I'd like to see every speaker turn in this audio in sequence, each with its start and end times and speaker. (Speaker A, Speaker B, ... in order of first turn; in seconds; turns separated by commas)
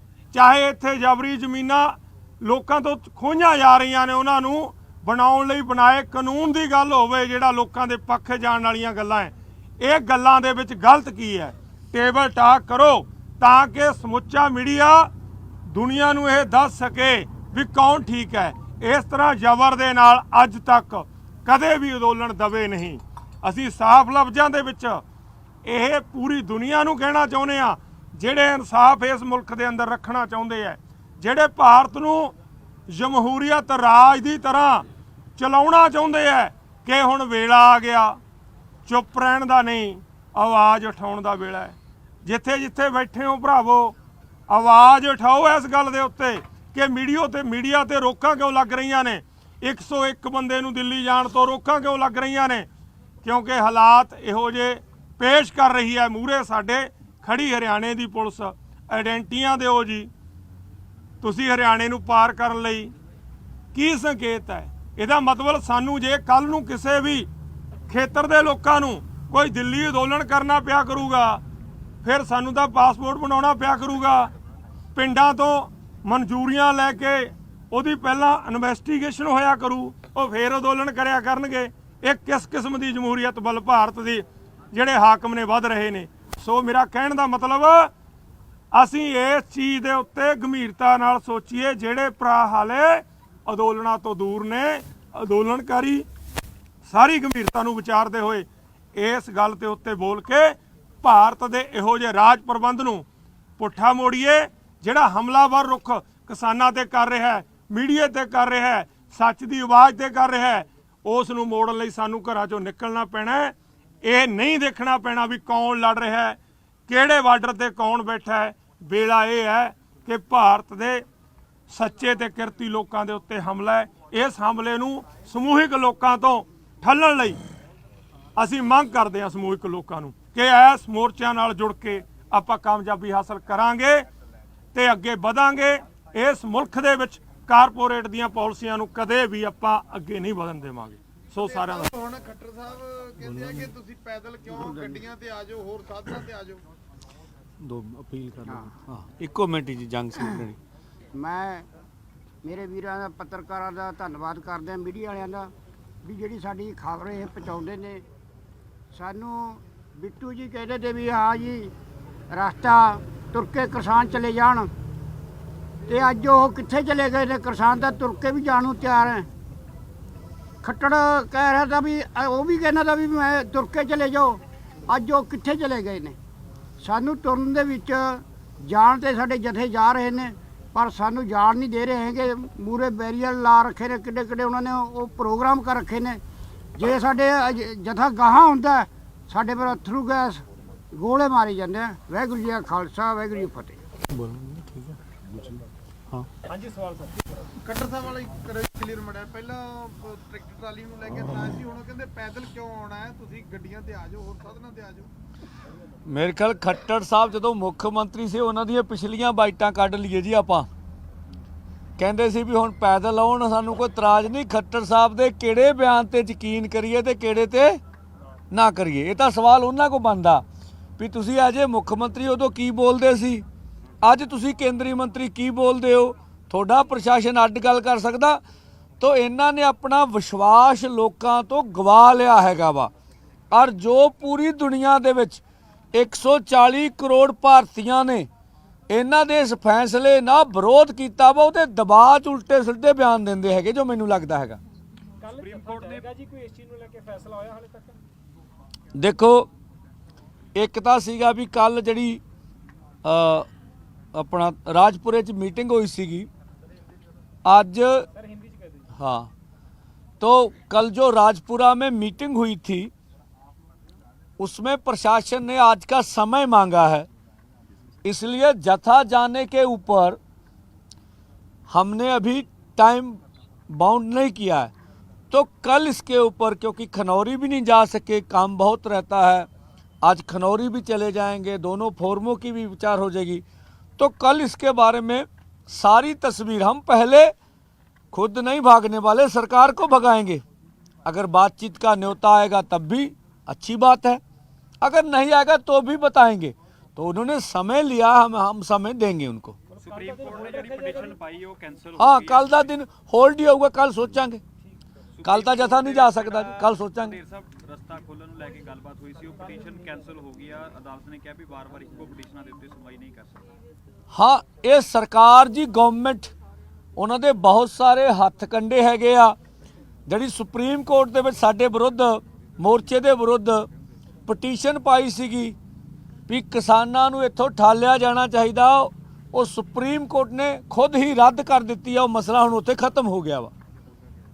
Speaker A: 0.3-15.1, Speaker A: 15.7-25.0, Speaker A: 25.6-32.3, Speaker A: 32.9-34.8, Speaker A: 35.4-38.2, Speaker A: 38.9-43.9, Speaker A: 44.5-52.7, Speaker A: 53.2-60.1, Speaker A: 61.2-62.9, Speaker A: 63.7-67.3, Speaker A: 67.9-71.4, Speaker A: 72.0-74.3, Speaker A: 74.9-87.9, Speaker A: 88.7-96.0, Speaker A: 96.9-103.0, Speaker A: 103.6-121.0, Speaker A: 121.7-127.4, Speaker A: 128.4-134.1, Speaker A: 134.7-141.9, Speaker B: 141.3-146.6, Speaker C: 144.6-145.0, Speaker D: 147.6-150.6, Speaker C: 148.4-148.7, Speaker C: 151.1-151.7, Speaker C: 152.4-155.5, Speaker C: 156.0-158.0, Speaker C: 158.9-161.7, Speaker C: 162.3-164.7, Speaker C: 165.9-169.3, Speaker C: 170.6-176.2, Speaker C: 176.8-186.2, Speaker C: 186.8-193.8, Speaker B: 197.6-205.1, Speaker D: 206.1-210.7, Speaker D: 212.0-217.8, Speaker D: 218.5-220.4, Speaker D: 221.0-223.4, Speaker D: 224.0-228.4, Speaker D: 229.0-232.9, Speaker D: 233.5-235.4, Speaker D: 235.9-238.3, Speaker D: 238.9-244.6, Speaker E: 245.3-246.4, Speaker D: 248.9-249.5, Speaker D: 250.6-252.2, Speaker D: 253.0-253.5, Speaker D: 254.1-256.3, Speaker D: 257.4-258.1, Speaker D: 258.9-259.3, Speaker D: 260.2-262.9, Speaker D: 264.4-267.1, Speaker D: 268.0-270.2, Speaker D: 271.7-273.2, Speaker D: 273.7-274.7, Speaker D: 275.3-279.5, Speaker D: 280.0-283.4, Speaker D: 284.0-287.3, Speaker D: 288.1-290.4, Speaker D: 291.0-294.2, Speaker D: 294.8-299.6, Speaker E: 299.8-302.1, Speaker F: 299.9-301.9, Speaker D: 302.0-304.4, Speaker D: 305.2-307.2, Speaker E: 305.2-306.1, Speaker E: 307.6-310.7, Speaker F: 308.2-313.2, Speaker E: 311.7-312.2, Speaker D: 314.1-316.3, Speaker D: 316.9-319.4, Speaker D: 320.1-323.7, Speaker D: 324.3-325.6, Speaker D: 326.3-333.5